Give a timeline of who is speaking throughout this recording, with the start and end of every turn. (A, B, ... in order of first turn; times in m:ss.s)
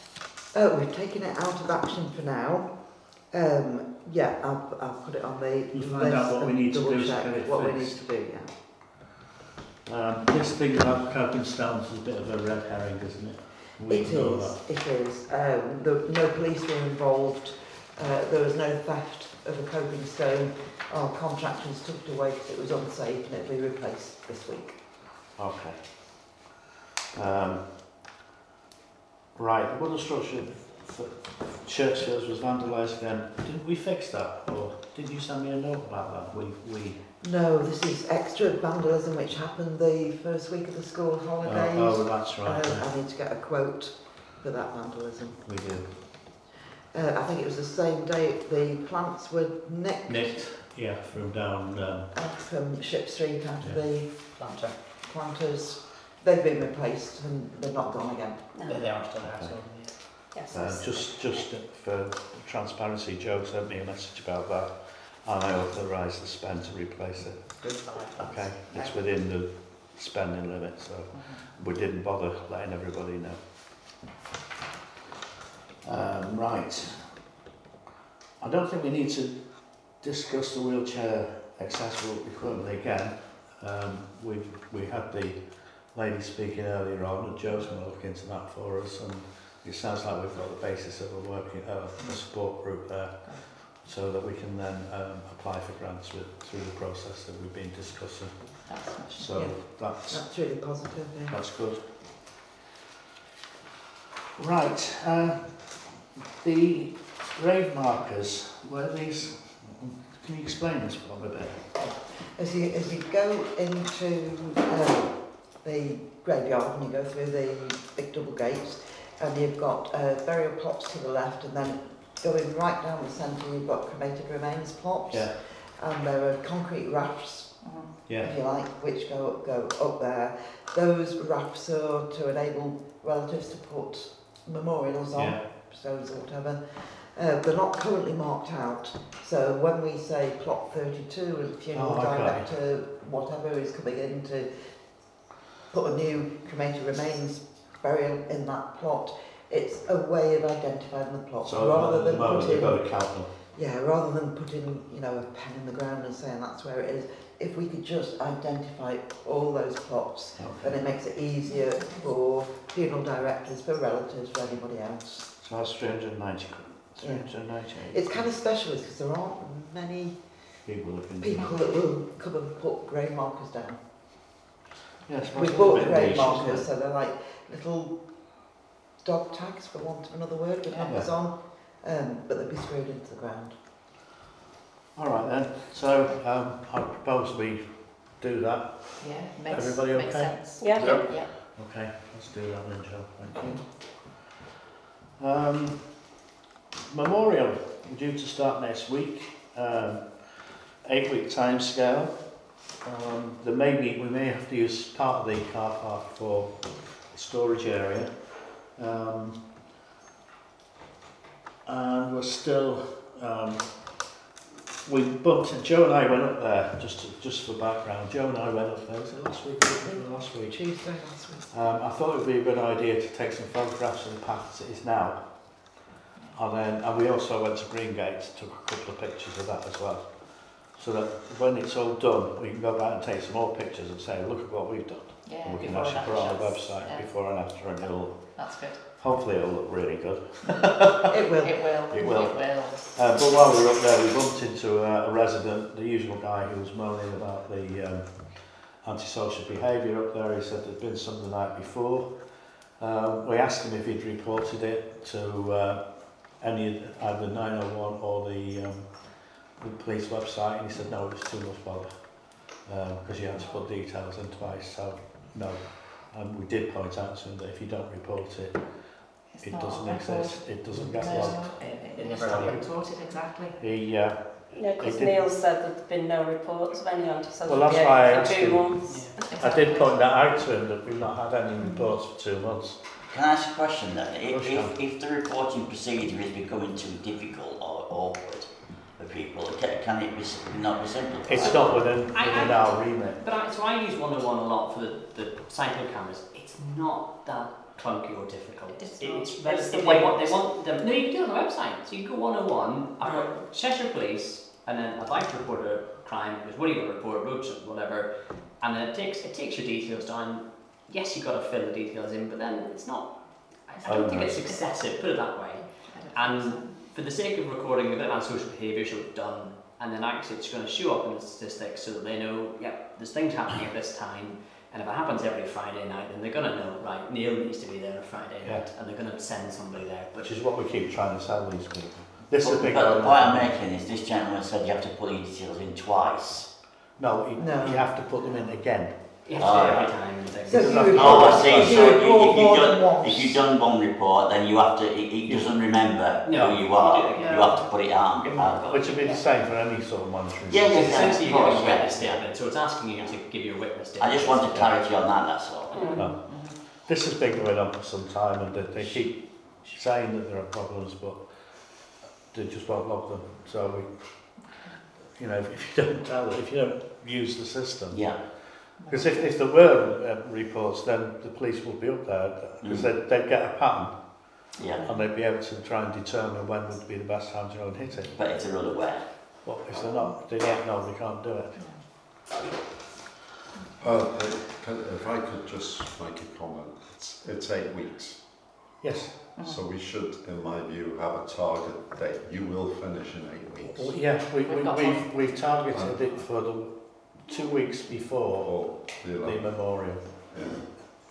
0:00.5-0:08.5 A
0:05.7-0:08.0 B
0:09.8-0:14.6 B
0:13.9-0:24.8 A
0:25.4-0:26.4 B
0:27.1-0:27.7 B
0:29.4-0:37.0 B
0:37.2-0:45.4 A
0:41.4-0:42.8 B
0:45.4-0:45.9 B
0:46.9-0:50.4 A
0:50.1-0:52.1 B
0:52.1-0:54.3 A
0:54.4-0:54.8 C
0:55.0-0:58.5 A
0:58.5-0:58.8 D
0:58.6-1:00.0 C
0:59.2-1:07.6 B
1:00.3-1:00.8 D
1:07.6-1:08.5 C
1:08.2-1:13.4 B
1:11.1-1:11.5 E
1:15.8-1:17.0 B
1:18.4-1:25.4 B
1:25.9-1:38.3 B
1:33.2-1:33.5 E
1:38.6-1:39.4 E
1:39.1-1:40.2 B
1:39.3-1:41.4 A
1:41.3-1:41.8 B
1:44.4-1:51.8 B
1:52.1-2:24.5 A
2:07.6-2:08.0 E
2:08.0-2:08.3 B
2:15.1-2:15.5 B
2:21.7-2:22.5 B
2:25.7-2:45.3 A
2:31.4-2:33.3 B
2:40.4-2:40.8 B
2:45.4-2:48.2 B
2:47.0-2:50.2 A
2:50.6-2:51.6 B
2:51.2-2:53.8 A
2:55.1-2:56.7 B
2:55.3-2:58.0 A
2:59.0-3:03.6 A
3:00.7-3:01.0 E
3:05.0-3:14.2 B
3:09.0-3:11.3 E
3:10.6-3:10.9 D
3:15.2-3:16.1 B
3:16.9-3:22.2 B
3:22.8-3:28.1 B
3:28.7-3:29.4 B
3:31.6-3:34.0 B
3:34.8-3:40.6 B
3:39.8-3:41.5 A
3:41.5-3:45.7 B
3:46.3-3:58.3 B
3:55.2-3:57.1 E
3:55.6-3:56.5 C
3:57.8-3:58.9 E
3:58.9-4:01.1 B
4:01.1-4:01.7 A
4:01.2-4:03.0 E
4:01.9-4:12.1 B
4:12.8-4:28.6 B
4:23.3-4:23.6 E
4:29.3-4:33.6 E
4:29.4-4:31.6 B
4:31.6-4:32.6 C
4:32.2-4:32.6 B
4:33.6-4:35.2 B
4:34.5-4:39.1 D
4:37.4-4:38.8 B
4:38.8-4:39.2 C
4:39.2-4:40.0 E
4:39.3-4:42.8 B
4:43.1-4:51.8 F
4:44.2-4:44.7 B
4:51.2-4:53.2 B
4:51.4-5:30.3 C
4:58.8-4:59.2 E
4:59.0-5:00.5 D
5:03.0-5:03.5 D
5:13.8-5:14.5 B
5:15.8-5:16.8 E
5:28.4-5:28.7 B
5:30.2-5:33.6 B
5:32.4-5:36.5 F
5:37.0-5:39.1 B
5:37.4-5:37.9 A
5:39.2-5:41.7 C
5:39.4-5:40.0 F
5:40.5-5:43.4 A
5:40.5-5:42.0 B
5:40.7-5:48.7 F
5:46.2-5:49.2 C
5:48.6-5:51.3 B
5:50.5-5:52.2 F
5:50.6-5:54.9 C
5:54.0-5:55.8 F
5:55.7-5:56.0 D
5:55.9-5:56.2 B
5:56.0-5:56.6 E
5:56.8-6:01.2 B
6:02.3-6:04.0 B
6:05.2-6:08.0 B
6:07.9-6:08.2 F
6:08.8-6:09.3 E
6:08.9-6:14.0 B
6:14.5-6:14.8 F
6:14.8-6:18.1 B
6:18.2-6:19.1 F
6:19.4-6:21.6 B
6:21.6-6:21.8 E
6:23.8-6:28.2 G
6:28.8-6:29.3 B
6:29.4-6:29.6 E
6:29.4-6:33.9 G
6:33.7-6:38.6 B
6:34.4-6:35.2 E
6:35.7-6:36.1 G
6:38.4-6:40.6 G
6:39.2-6:40.0 B